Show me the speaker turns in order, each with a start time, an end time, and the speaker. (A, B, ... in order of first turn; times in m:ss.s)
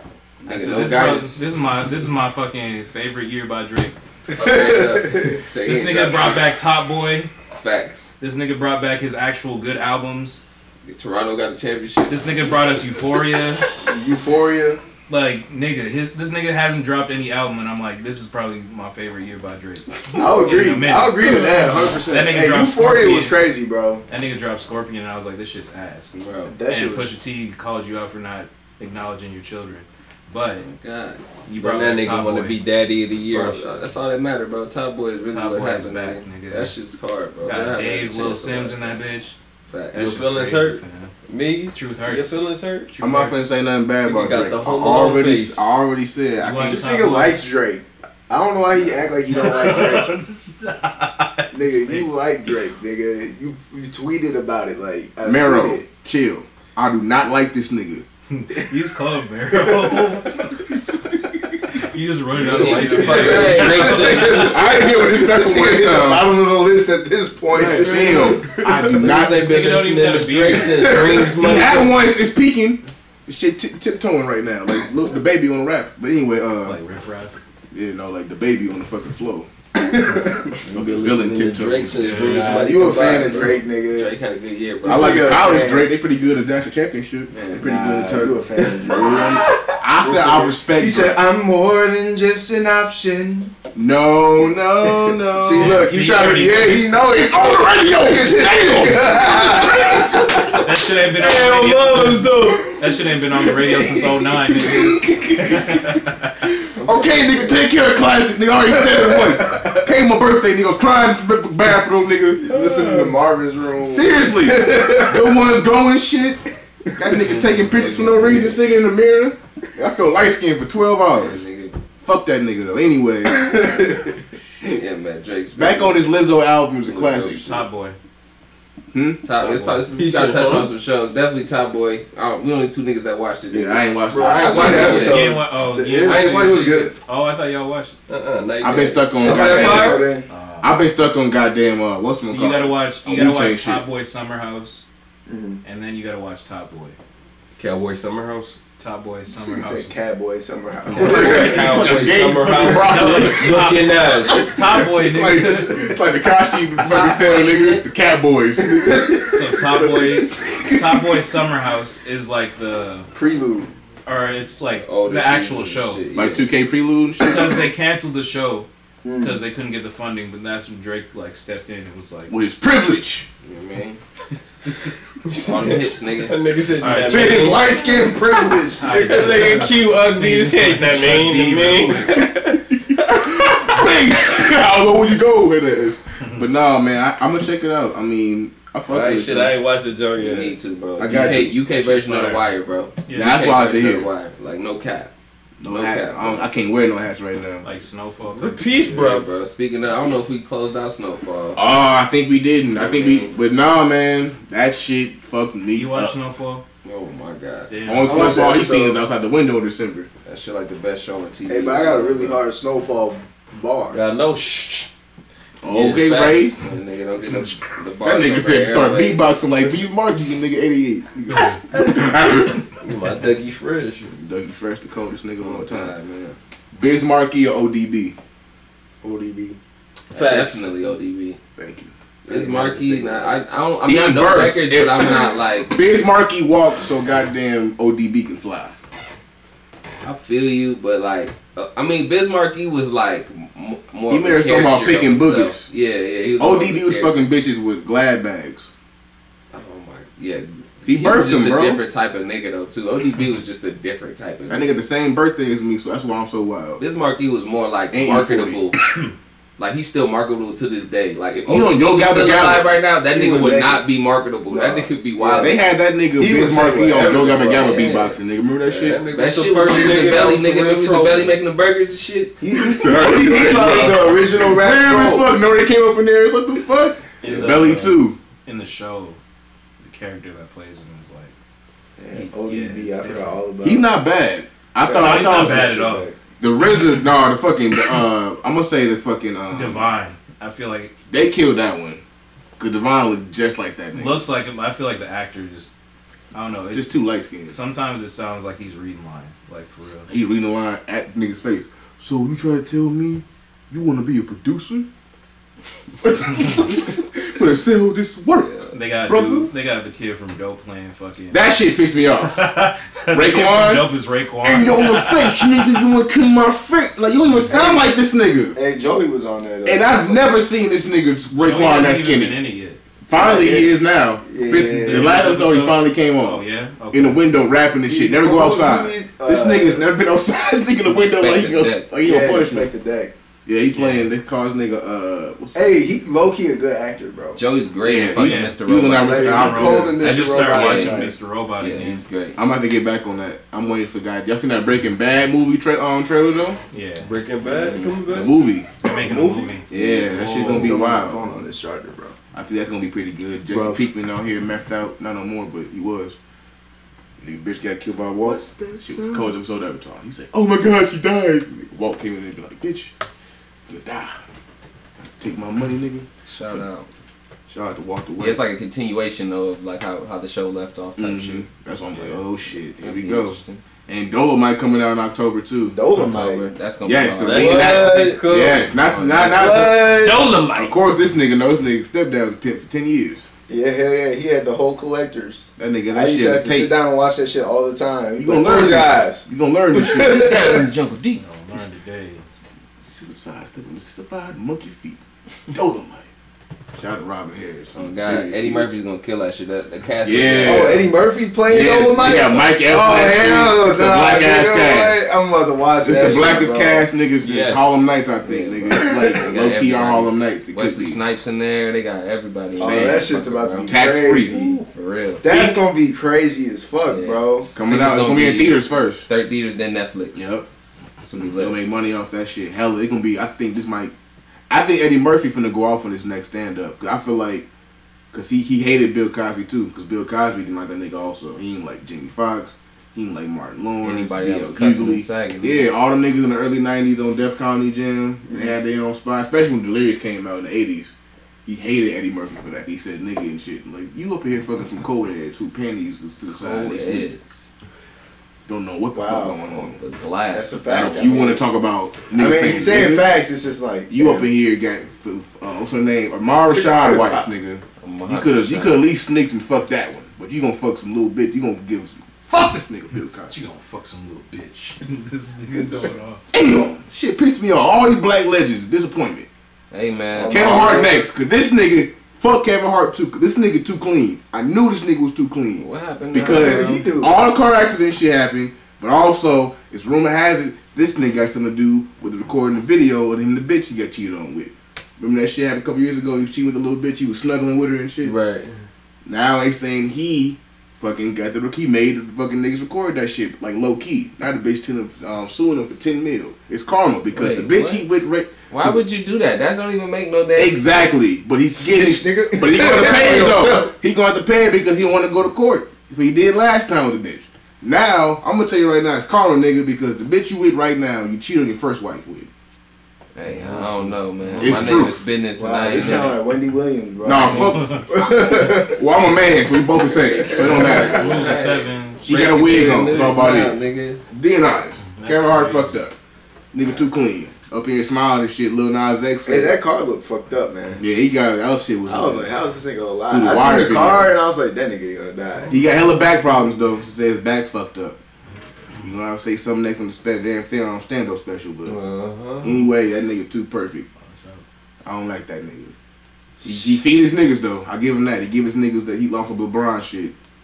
0:00.4-0:03.9 A
0:00.4-0:01.4 B
0:00.5-0:01.2 C
0:04.3-0:05.4 D
0:04.3-0:06.4 B
0:05.6-0:07.3 A
0:07.5-0:08.1 B
0:08.2-0:10.4 A
0:10.8-0:12.9 B
0:12.1-0:13.7 A
0:13.8-0:14.8 D
0:15.1-0:23.4 A
0:20.1-0:24.0 D
0:24.1-0:26.1 A
0:26.1-0:26.5 B
0:26.4-0:27.1 D
0:26.7-0:30.7 A
0:30.6-0:31.2 B
0:31.4-0:32.6 A
0:31.6-0:33.8 E
0:33.3-0:39.0 B
0:35.3-0:36.7 A
0:37.4-0:39.4 A
0:39.7-0:40.1 B
0:39.9-0:41.1 A
0:39.9-0:42.9 E
0:41.7-0:43.4 A
0:43.0-0:46.8 C
0:44.0-0:45.7 E
0:46.4-0:47.4 A
0:46.6-0:50.1 D
0:49.3-0:52.3 A
0:51.5-0:55.8 D
0:55.2-0:58.0 C
0:58.3-1:00.7 A
0:59.6-1:00.1 D
1:01.7-1:04.6 A
1:02.4-1:04.4 E
1:02.6-1:08.9 D
1:02.7-1:04.8 B
1:04.4-1:06.3 C
1:07.5-1:09.5 C
1:08.8-1:12.0 E
1:09.2-1:11.0 A
1:10.6-1:11.4 D
1:11.2-1:16.8 C
1:16.6-1:17.4 A
1:17.7-1:19.5 C
1:19.8-1:20.7 D
1:20.6-1:23.5 E
1:20.7-1:23.5 C
1:21.9-1:22.8 A
1:22.3-1:24.2 D
1:22.9-1:25.6 B
1:24.8-1:25.9 D
1:24.8-1:31.2 C
1:27.3-1:27.6 B
1:27.5-1:33.5 D
1:28.9-1:29.3 B
1:33.7-1:40.6 C
1:34.8-1:40.6 D
1:35.4-1:36.8 A
1:40.6-1:46.4 A
1:41.1-1:42.7 E
1:44.5-1:52.5 C
1:46.8-1:47.6 D
1:48.6-1:49.9 D
1:52.4-1:55.4 D
1:52.5-1:53.2 E
1:53.8-1:56.4 C
1:57.0-2:01.4 C
1:57.6-1:58.5 B
1:57.8-1:58.5 D
2:01.1-2:01.8 B
2:02.0-2:04.0 C
2:03.2-2:04.1 D
2:04.6-2:06.2 B
2:05.5-2:07.6 C
2:06.8-2:07.4 B
2:07.4-2:08.0 A
2:08.9-2:09.2 C
2:09.2-2:15.4 B
2:09.4-2:09.8 A
2:09.9-2:10.7 E
2:13.5-2:15.1 C
2:14.1-2:16.9 D
2:14.8-2:18.0 A
2:16.0-2:16.8 E
2:18.1-2:20.0 E
2:18.6-2:20.0 C
2:19.2-2:20.2 D
2:19.3-2:20.0 B
2:20.3-2:20.8 A
2:20.6-2:23.8 C
2:22.2-2:24.8 A
2:25.3-2:25.6 D
2:25.6-2:27.0 A
2:27.6-2:28.6 E
2:28.8-2:29.9 A
2:29.3-2:31.9 D
2:30.9-2:31.9 A
2:30.9-2:41.2 C
2:30.9-2:34.5 E
2:32.4-2:35.9 A
2:36.8-2:37.9 B
2:38.7-2:39.2 D
2:39.3-2:43.1 A
2:43.1-2:43.7 D
2:44.0-2:46.0 A
2:44.8-2:46.5 B
2:46.1-2:47.6 C
2:47.2-2:52.4 A
2:49.0-2:49.4 D
2:52.3-2:53.3 C
2:53.4-2:54.0 B
2:55.2-2:58.1 E
2:55.4-2:56.4 B
2:56.8-2:57.6 A
2:57.0-2:59.3 D
2:58.8-3:03.8 E
2:58.8-3:02.3 A
3:02.9-3:09.6 C
3:06.2-3:06.5 A
3:08.9-3:10.5 E
3:10.2-3:15.1 B
3:11.0-3:11.5 C
3:11.1-3:12.5 A
3:13.1-3:13.4 A
3:13.1-3:14.1 C
3:15.6-3:17.6 C
3:15.6-3:16.5 B
3:17.6-3:19.0 A
3:18.3-3:19.3 E
3:18.9-3:21.6 B
3:21.6-3:26.1 C
3:22.7-3:23.3 B
3:25.7-3:26.6 A
3:26.8-3:27.7 B
3:27.7-3:28.5 A
3:27.8-3:30.1 C
3:28.0-3:29.0 D
3:30.2-3:32.4 B
3:31.4-3:34.0 D
3:33.9-3:34.9 E
3:35.6-3:36.6 C
3:35.7-3:36.6 E
3:35.8-3:39.4 B
3:37.2-3:37.6 A
3:38.0-3:42.7 C
3:42.8-3:44.1 E
3:44.1-3:45.9 C
3:45.4-3:46.4 B
3:46.7-3:48.2 C
3:49.0-3:49.6 D
3:50.1-3:50.6 E
3:50.1-3:51.4 B
3:51.6-3:51.9 C
3:52.3-3:55.7 B
3:52.3-3:53.0 D
3:53.8-3:58.7 C
4:00.0-4:07.2 B
4:04.1-4:05.7 C
4:06.4-4:08.7 C
4:09.5-4:14.7 B
4:10.8-4:11.8 C
4:14.5-4:16.8 C
4:16.8-4:18.8 B
4:17.9-4:18.6 C
4:19.6-4:25.6 B
4:21.5-4:22.7 C
4:23.1-4:23.8 D
4:24.5-4:25.6 D
4:25.3-4:29.0 C
4:26.2-4:28.1 D
4:27.0-4:28.2 B
4:28.6-4:31.4 E
4:29.1-4:32.4 B
4:32.4-4:35.3 D
4:32.5-4:38.2 C
4:33.3-4:33.9 B
4:37.2-4:39.2 A
4:37.2-4:37.6 E
4:39.8-4:41.3 A
4:42.0-4:43.9 D
4:42.1-4:43.4 A
4:43.6-4:45.8 C
4:44.8-4:46.2 D
4:44.9-4:46.0 A
4:46.4-4:49.9 C
4:49.5-4:50.9 A
4:51.1-4:52.0 C
4:52.6-4:54.2 C
4:53.9-4:55.7 A
4:56.3-4:56.9 A
4:56.7-4:57.6 C
4:57.4-5:00.1 A
5:00.1-5:04.9 C
5:06.0-5:09.5 C
5:08.4-5:08.7 B
5:08.7-5:11.5 A
5:11.3-5:12.5 C
5:12.2-5:15.8 A
5:13.1-5:18.6 C
5:17.4-5:17.9 D
5:18.5-5:20.3 D
5:19.6-5:22.4 C
5:21.3-5:22.8 A
5:23.1-5:32.7 C
5:23.1-5:25.2 D
5:24.8-5:27.2 A
5:27.9-5:29.9 D
5:30.8-5:31.9 B
5:32.0-5:33.1 D
5:33.4-5:35.8 C
5:33.7-5:34.1 A
5:35.5-5:37.4 D
5:37.4-5:42.4 B
5:37.8-5:40.0 C
5:38.1-5:38.6 A
5:38.9-5:41.2 D
5:39.2-5:42.0 A
5:42.4-5:46.6 C
5:46.7-5:47.1 A
5:47.0-5:48.3 E
5:47.6-5:47.9 B
5:48.0-5:48.7 C
5:48.8-5:50.9 A
5:48.9-5:52.2 D
5:49.7-5:51.4 C
5:52.3-5:56.2 C
5:53.5-5:53.9 D
5:57.2-6:02.9 C
5:58.2-5:59.3 D
6:03.6-6:04.2 C
6:05.2-6:06.6 C
6:06.3-6:06.9 B
6:07.5-6:08.4 C
6:08.2-6:11.4 B
6:11.0-6:15.8 C
6:12.0-6:13.6 B
6:15.7-6:16.5 D
6:15.9-6:19.7 B
6:16.8-6:23.3 C
6:17.2-6:18.6 E
6:17.3-6:18.2 D
6:19.1-6:20.4 D
6:20.0-6:20.7 E
6:23.5-6:30.7 D
6:25.6-6:26.7 C
6:28.2-6:30.6 C
6:29.9-6:31.2 B
6:31.1-6:32.2 A
6:32.8-6:35.0 C
6:35.5-6:36.1 C
6:36.7-6:38.8 C
6:37.7-6:40.9 B
6:40.0-6:40.9 C
6:40.4-6:46.9 D
6:41.4-6:45.0 C
6:45.8-6:51.0 C
6:47.2-6:47.8 E
6:48.2-6:53.8 B
6:48.8-6:49.1 D
6:52.6-6:54.6 D
6:52.6-6:53.1 C
6:53.6-6:54.6 C
6:54.7-6:55.3 B
6:55.2-6:57.5 D
6:56.9-7:00.3 B
6:57.5-6:59.0 C
7:00.1-7:00.5 C
7:01.0-7:01.6 B
7:01.1-7:03.9 C
7:04.5-7:07.4 C
7:08.1-7:20.9 C
7:13.8-7:15.7 B
7:21.4-7:27.1 C
7:26.3-7:27.5 B
7:28.5-7:29.8 C
7:28.9-7:29.8 D
7:29.8-7:31.2 B
7:30.3-7:31.4 D
7:30.7-7:33.2 C
7:32.1-7:34.3 D
7:33.9-7:43.3 C
7:36.5-7:37.3 D
7:37.8-7:38.8 B
7:43.3-7:46.2 A
7:46.3-7:49.3 C
7:49.7-7:50.8 B
7:50.1-7:51.0 D
7:50.3-8:08.2 C
7:55.6-7:56.8 B
7:56.2-7:57.1 D
8:08.0-8:08.6 E
8:09.0-8:18.8 C
8:17.1-8:20.9 B
8:20.4-8:32.3 C
8:21.6-8:23.7 D
8:22.6-8:23.4 B
8:33.1-8:36.2 B
8:34.2-8:34.8 A
8:34.4-8:35.0 C
8:35.4-8:38.8 D
8:35.7-8:36.0 C
8:37.0-8:41.3 C
8:37.2-8:37.8 A
8:39.9-8:41.5 D
8:39.9-8:44.0 B
8:40.4-8:42.9 A
8:42.0-8:45.9 C
8:44.9-8:45.8 A
8:46.5-8:49.6 C
8:49.2-8:50.8 D
8:50.8-8:52.3 C
8:51.8-8:55.6 D
8:53.1-8:54.2 C
8:55.5-8:58.0 C
8:58.8-9:01.8 C
9:01.6-9:02.5 B
9:02.4-9:03.8 C
9:04.0-9:04.4 A
9:04.8-9:05.7 C
9:06.4-9:10.1 C